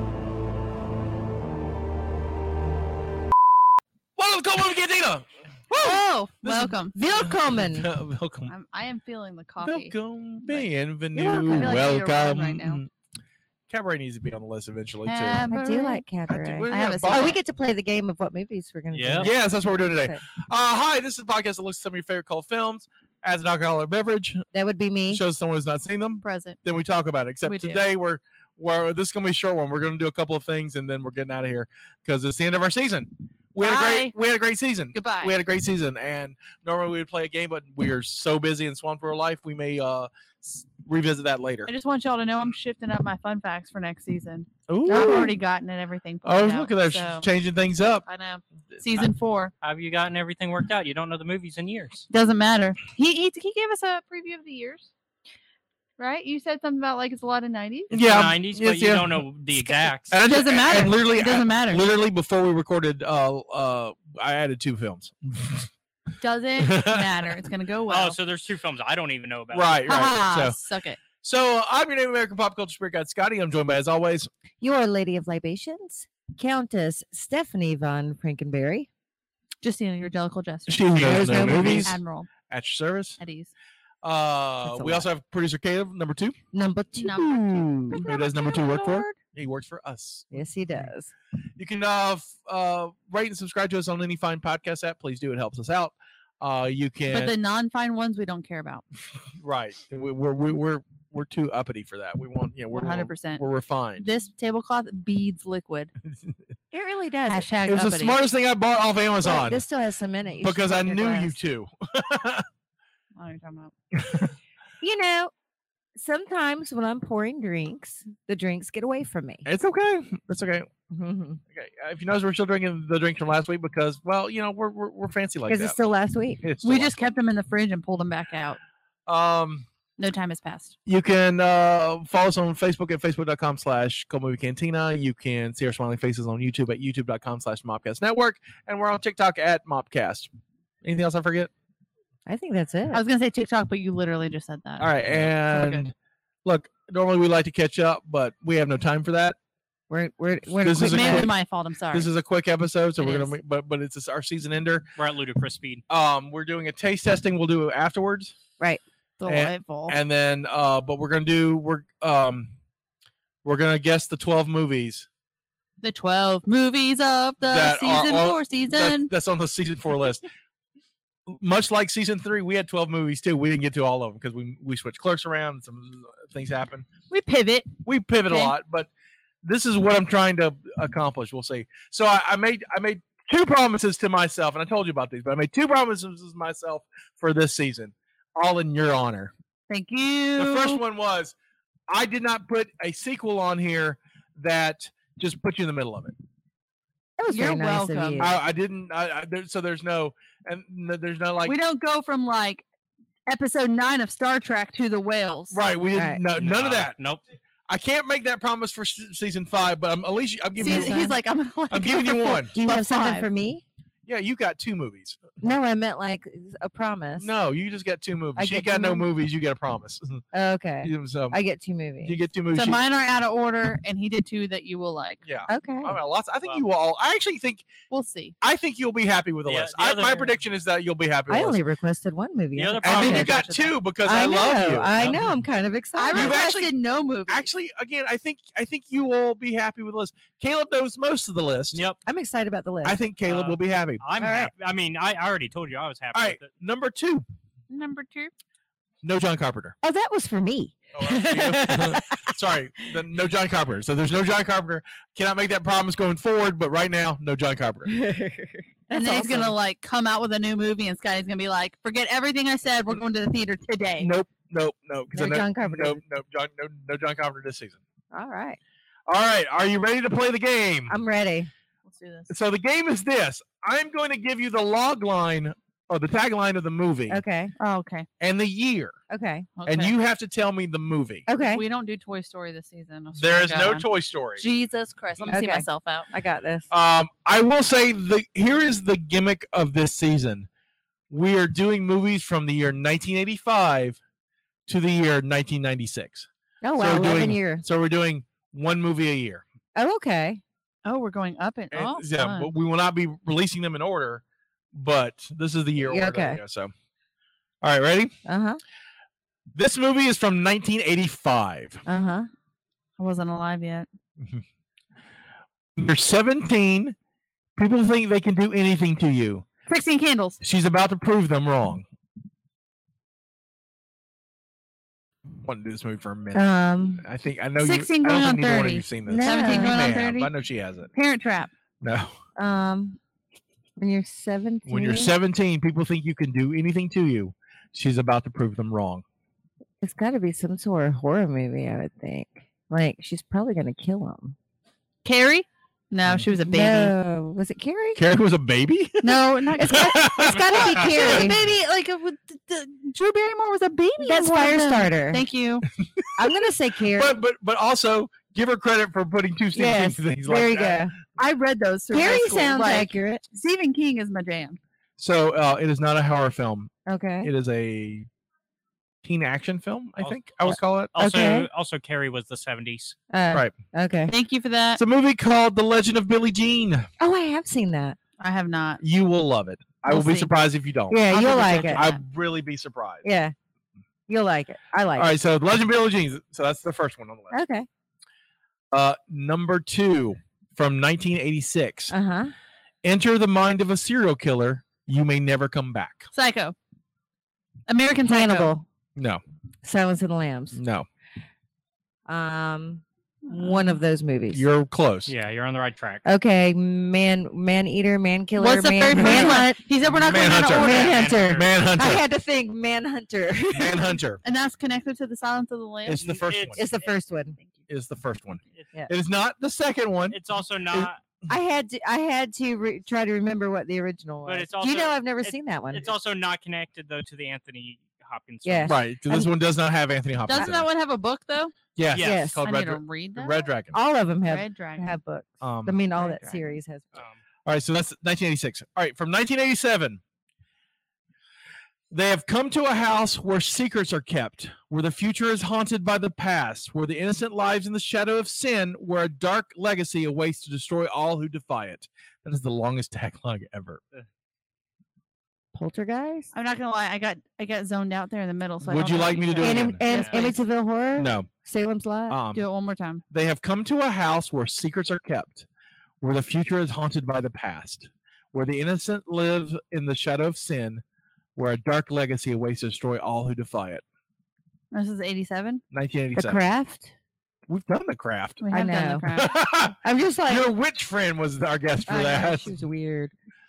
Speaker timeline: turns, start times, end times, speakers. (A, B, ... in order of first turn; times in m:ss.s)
0:04.2-0:08.5 A
0:05.7-0:07.0 B
0:06.9-0:07.9 C
0:08.5-0:09.9 B
0:09.6-0:12.9 A
0:11.1-0:11.9 C
0:11.5-0:12.8 B
0:13.7-0:15.5 A
0:15.0-0:16.0 B
0:15.5-0:19.4 C
0:16.3-0:17.4 A
0:16.7-0:17.4 B
0:18.9-0:19.3 D
0:19.2-0:24.4 A
0:24.5-0:25.2 C
0:25.1-0:41.7 A
0:26.2-0:26.6 B
0:27.4-0:27.8 B
0:33.6-0:34.1 B
0:34.9-0:35.4 B
0:41.7-0:47.3 B
0:44.7-0:45.4 A
0:44.8-0:45.3 C
0:46.2-0:48.1 A
0:48.0-0:49.5 B
0:48.8-0:49.1 A
0:49.6-0:52.1 D
0:52.1-0:54.9 B
0:56.0-0:57.9 B
0:57.9-1:00.2 D
0:57.9-0:59.2 A
1:00.1-1:05.7 A
1:00.3-1:01.8 B
1:06.2-1:08.2 B
1:06.6-1:07.2 A
1:07.9-1:09.8 D
1:09.5-1:10.6 A
1:09.8-1:11.0 B
1:11.2-1:14.3 A
1:14.6-1:18.9 C
1:19.6-1:22.3 B
1:20.7-1:23.2 A
1:20.9-1:22.0 C
1:23.2-1:23.5 B
1:24.0-1:26.4 A
1:24.7-1:25.1 C
1:26.5-1:28.0 C
1:27.0-1:29.2 B
1:27.9-1:30.9 A
1:30.3-1:31.1 C
1:31.6-1:37.3 A
1:37.1-1:38.8 B
1:39.4-1:44.1 A
1:42.7-1:43.4 B
1:44.0-1:45.9 B
1:46.7-1:47.5 C
1:47.3-1:48.2 B
1:47.6-1:49.6 A
1:49.2-1:51.4 C
1:50.4-1:52.5 A
1:53.2-1:53.7 B
1:53.9-1:54.3 A
1:54.8-1:55.3 C
1:56.0-1:59.5 C
1:59.4-2:00.7 A
2:00.9-2:01.4 C
2:01.5-2:05.8 A
2:05.5-2:06.4 C
2:06.4-2:07.0 A
2:06.6-2:08.6 B
2:09.1-2:09.7 A
2:10.0-2:10.8 B
2:10.9-2:20.3 A
2:20.8-2:21.5 A
2:22.3-2:23.0 C
2:22.9-2:25.8 B
2:24.8-2:25.9 A
2:26.4-2:29.4 A
2:29.9-2:31.3 C
2:30.6-2:31.4 A
2:30.8-2:32.1 B
2:31.9-2:34.9 A
2:33.0-2:33.4 C
2:35.0-2:35.8 D
2:35.9-2:38.4 A
2:39.2-2:40.0 B
2:39.3-2:42.5 A
2:43.4-2:45.1 A
2:45.8-2:49.1 B
2:47.4-2:50.3 A
2:51.3-2:56.9 A
2:57.1-2:57.7 B
2:57.8-2:58.9 A
2:58.3-2:58.6 B
2:59.4-3:09.3 A
3:09.7-3:10.8 B
3:10.4-3:11.4 A
3:11.9-3:16.1 A
3:17.2-3:18.4 C
3:17.3-3:18.3 B
3:18.2-3:21.6 A
3:21.4-3:22.6 B
3:23.3-3:25.6 B
3:25.5-3:27.0 A
3:25.9-3:26.2 C
3:26.4-3:27.2 D
3:27.7-3:31.0 A
3:30.6-3:33.3 B
3:30.6-3:31.2 C
3:31.7-3:32.5 A
3:32.3-3:33.6 C
3:34.1-3:35.5 A
3:35.4-3:37.3 C
3:37.2-3:40.2 A
3:38.4-3:39.1 C
3:40.3-3:42.2 C
3:40.8-3:41.4 A
3:42.0-3:42.8 A
3:42.5-3:45.2 B
3:45.2-3:47.7 A
3:45.5-3:46.0 C
3:47.9-3:48.4 B
3:48.4-3:51.6 A
3:49.4-3:50.4 D
3:51.3-3:53.4 C
3:52.6-3:53.5 D
3:52.8-3:55.2 A
3:52.9-3:53.8 B
3:54.0-3:56.4 C
3:54.9-3:55.3 D
3:56.0-3:57.5 B
3:56.1-3:56.7 A
3:57.3-4:01.8 A
4:01.7-4:02.0 D
4:02.0-4:03.0 C
4:02.8-4:04.0 A
4:03.2-4:06.5 D
4:04.2-4:04.5 C
4:06.1-4:07.3 A
4:07.7-4:08.3 B
4:09.0-4:09.8 A
4:09.8-4:12.3 C
4:11.0-4:17.9 A
4:17.9-4:19.6 C
4:18.9-4:24.1 B
4:24.0-4:27.8 A
4:25.1-4:26.0 C
4:28.1-4:28.6 C
4:29.1-4:31.0 A
4:30.9-4:31.5 C
4:31.9-4:32.3 B
4:32.3-4:37.2 A
4:37.1-4:37.5 C
4:37.6-4:38.1 B
4:38.2-4:39.0 A
4:39.1-4:39.5 C
4:39.6-4:40.0 B
4:39.7-4:41.3 A
4:41.3-4:41.6 C
4:41.4-4:43.9 B
4:43.2-4:44.4 A
4:44.4-4:46.1 B
4:45.3-4:46.7 C
4:46.7-4:50.5 A
4:51.1-4:54.0 A
4:54.7-4:59.4 A
4:56.6-4:57.6 C
4:59.7-5:00.4 C
5:00.8-5:02.5 B
5:01.7-5:06.7 A
5:05.8-5:06.4 C
5:07.6-5:08.1 A
5:08.3-5:08.6 C
5:09.6-5:11.8 A
5:11.9-5:12.3 C
5:13.0-5:13.9 B
5:15.8-5:17.0 A
5:17.6-5:19.4 A
5:19.7-5:20.4 B
5:20.4-5:21.8 A
5:25.4-5:26.5 A
5:26.3-5:27.0 C
5:27.0-5:30.9 A
5:27.6-5:30.3 B
5:29.0-5:29.8 C
5:30.9-5:31.5 B
5:31.8-5:32.2 A
5:32.4-5:33.0 C
5:33.8-5:35.1 C
5:34.7-5:39.0 A
5:39.8-5:44.4 C
5:45.0-5:47.0 B
5:46.4-5:48.0 C
5:48.0-5:51.4 A
5:49.0-5:55.7 B
5:49.6-5:51.4 C
5:50.5-5:50.8 D
5:54.0-5:55.2 C
5:56.2-5:57.2 C
5:56.9-6:00.9 A
5:59.5-6:00.9 C
6:01.2-6:04.6 B
6:01.9-6:03.2 C
6:05.0-6:08.1 A
6:06.9-6:07.3 C
6:09.0-6:10.9 A
6:10.0-6:13.0 D
6:11.0-6:11.5 C
6:13.1-6:14.1 C
6:14.1-6:14.8 B
6:14.8-6:16.9 A
6:17.0-6:18.0 C
6:18.2-6:18.8 B
6:18.8-6:23.1 A
6:19.8-6:20.4 B
6:20.9-6:21.9 C
6:21.1-6:22.0 B
6:23.0-6:23.3 C
6:24.1-6:25.2 C
6:25.0-6:27.3 A
6:27.3-6:27.7 C
6:28.7-6:31.9 A
6:31.9-6:32.3 C
6:32.8-6:36.1 A
6:36.1-6:36.6 B
6:37.7-6:38.5 B
6:38.0-6:38.7 C
6:39.0-6:39.2 A
6:39.6-6:40.6 C
6:40.5-6:40.9 A
6:42.1-6:44.4 C
6:43.2-6:43.8 B
6:44.3-6:45.1 A
6:45.1-6:46.0 D
6:46.0-6:49.6 C
6:48.4-6:50.9 B
6:48.9-6:49.4 A
6:50.0-6:52.0 A
6:50.5-6:54.0 C
6:50.6-6:51.6 D
6:53.5-6:54.2 A
6:54.2-6:56.0 B
6:55.9-6:56.6 A
6:56.0-6:56.9 D
6:56.5-6:57.4 C
6:57.7-7:01.3 A
7:00.1-7:01.0 D
7:01.3-7:05.9 C
7:04.2-7:08.8 D
7:08.4-7:09.3 C
7:08.7-7:10.7 A
7:10.3-7:11.5 B
7:11.8-7:13.8 A
7:11.9-7:12.3 D
7:12.0-7:12.4 C
7:12.4-7:13.4 B
7:13.7-7:17.0 C
7:14.2-7:14.9 B
7:15.4-7:15.8 A
7:15.9-7:16.6 B
7:16.9-7:17.2 D
7:17.4-7:20.0 A
7:21.9-7:33.8 A
7:35.5-7:36.3 C
7:36.3-7:40.4 B
7:38.6-7:39.8 A
7:39.4-7:42.2 C
7:39.8-7:40.2 D
7:41.0-7:41.3 A
7:42.1-7:42.5 A
7:42.3-7:43.0 B
7:43.1-7:45.5 A
7:46.0-7:50.8 A
7:51.4-7:53.8 A
7:54.7-7:55.6 B
7:55.7-7:56.4 A
7:56.2-7:56.9 C
7:57.5-7:58.4 A
7:58.4-7:59.4 B
7:58.5-7:59.1 C
7:59.1-8:02.5 A
7:59.8-8:00.5 C
8:01.9-8:03.1 C